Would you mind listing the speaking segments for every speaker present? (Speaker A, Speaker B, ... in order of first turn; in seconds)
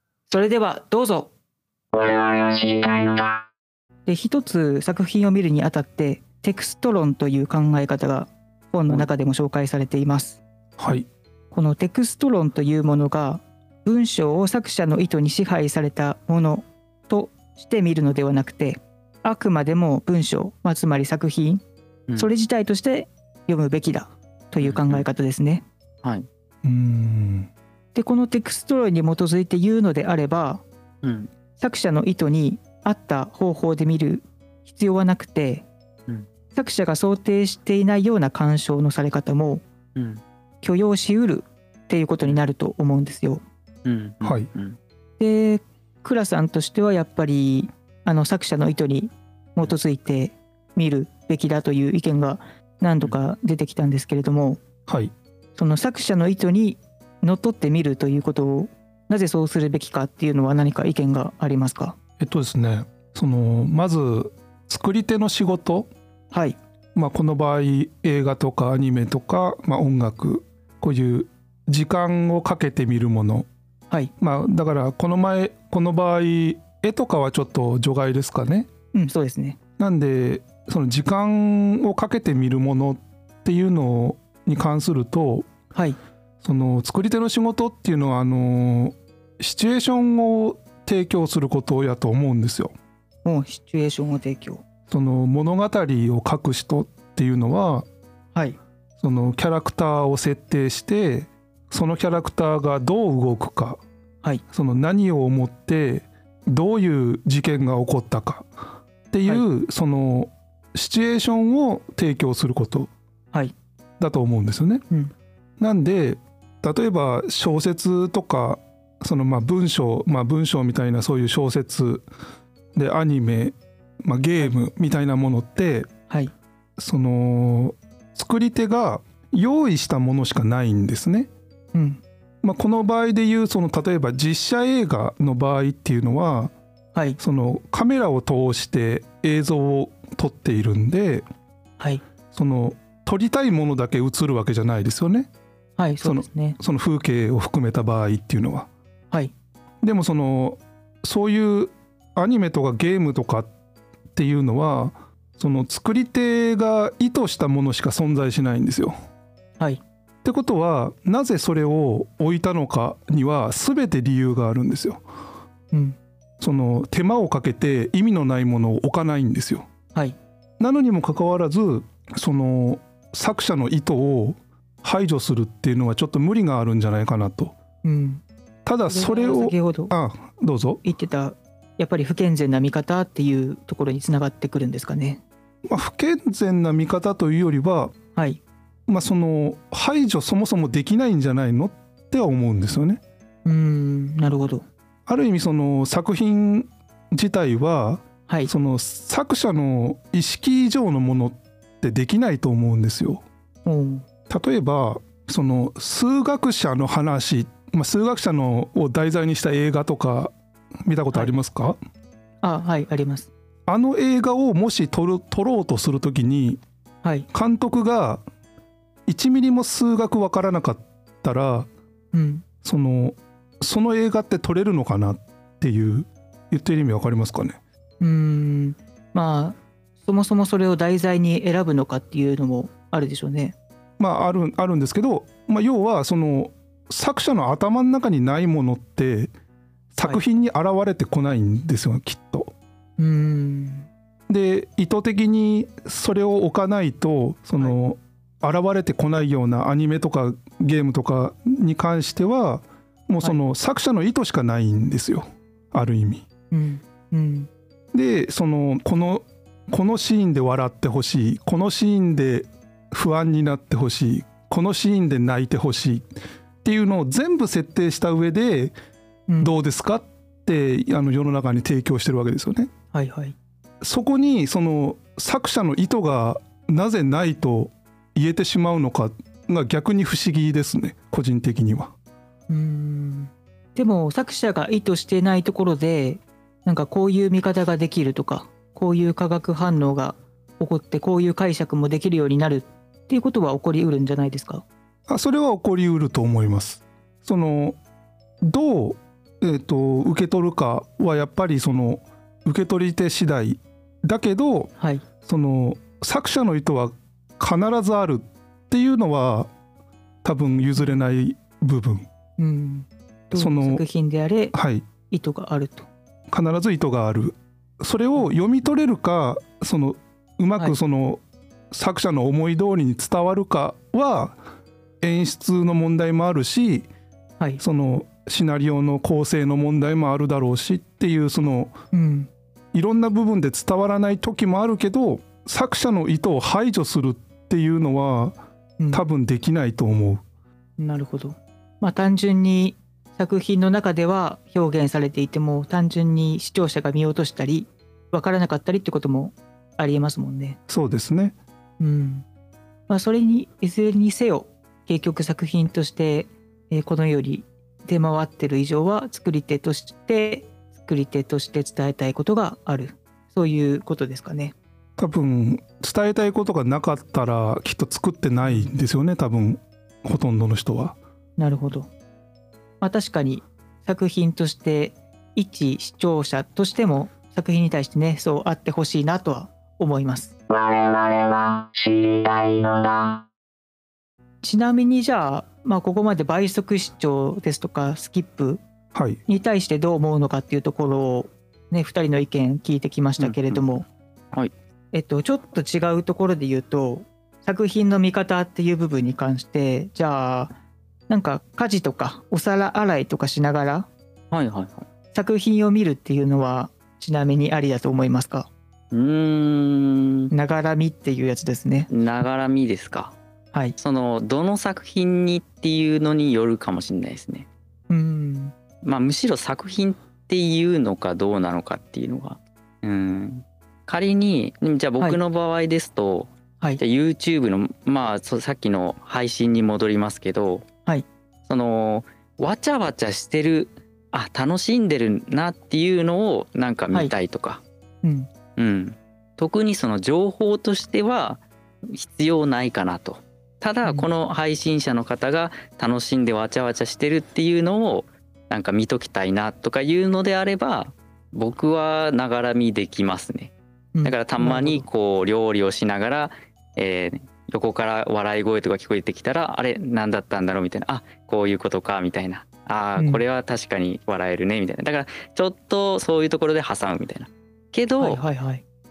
Speaker A: 0.3-1.3, 2.5-2.9, 4.1-10.4, 11.5-21.6, 22.2-25.6, 27.9-30.6, 31.6-35.7, 36.5-39.6, 40.6-43.4, 45.2-54.6, 55.6-62.0, 66.3-66.6, 78.9-79.6, 93.2-94.6, 131.7-132.0, 145.8-146.6, 165.7-166.0, 177.8-178.2, 178.9-179.9, 180.8-185.2, 193.4-194.6, 203.7-204.1, 212.4-213.3, 222.1-222.4, 228.0-233.6, 243.0-243.9, 256.5-257.5, 269.3-269.5, 272.9-273.4, 282.5-294.6, 304.8-305.1, 312.4-314.6, 315.1-315.9, 331.9-332.3, 340.8-350.6, 351.8-352.3, 352.9-364.5, 368.4-368.7, 371.4-371.9, 372.8-380.4, 384.4-388.6, 389.3-393.9, 394.9-400.5, 401.1-403.9, 405.1-408.5, 410.3-411.9, 417.9-418.5, 438.0-438.3, 453.9-454.9, 468.0-468.6
Speaker B: 10.8-11.1, 26.6-27.5, 44.2-44.5, 54.9-55.1, 62.2-65.9, 67.0-73.5, 74.2-78.7, 79.8-85.5, 86.4-92.7, 94.9-97.9, 99.0-103.8, 104.5-108.5, 109.1-112.9, 114.0-114.8, 115.6-122.0, 122.8-125.9, 126.8-131.3, 132.4-136.5, 137.2-141.2, 142.3-145.3, 146.0-148.7, 149.8-153.5, 154.1-158.9, 160.2-165.0, 166.4-169.7, 170.6-177.6, 178.7-180.8, 185.7-187.9, 188.9-193.0, 195.1-203.2, 204.3-210.3, 210.8-211.8, 213.7-216.6, 217.3-218.2, 219.1-221.7, 222.6-227.6, 234.0-239.3, 239.9-242.5, 244.3-256.3, 257.9-266.1, 266.6-268.7, 269.4-272.7, 273.8-281.9, 295.1-297.8, 298.4-309.5, 310.2-312.1, 313.3-313.9, 314.5-314.9, 316.3-324.4, 325.0-326.9, 327.6-331.7, 332.7-338.4, 338.9-340.2, 350.7-351.4, 365.0-371.0, 388.9-389.2
Speaker C: 24.6-25.1, 31.0-31.3, 40.0-40.2, 43.9-44.8, 393.2-393.6, 404.3-404.9, 408.9-410.3, 411.9-413.1, 413.8-417.5, 418.8-430.7, 431.5-437.6, 438.6-453.5, 454.1-468.2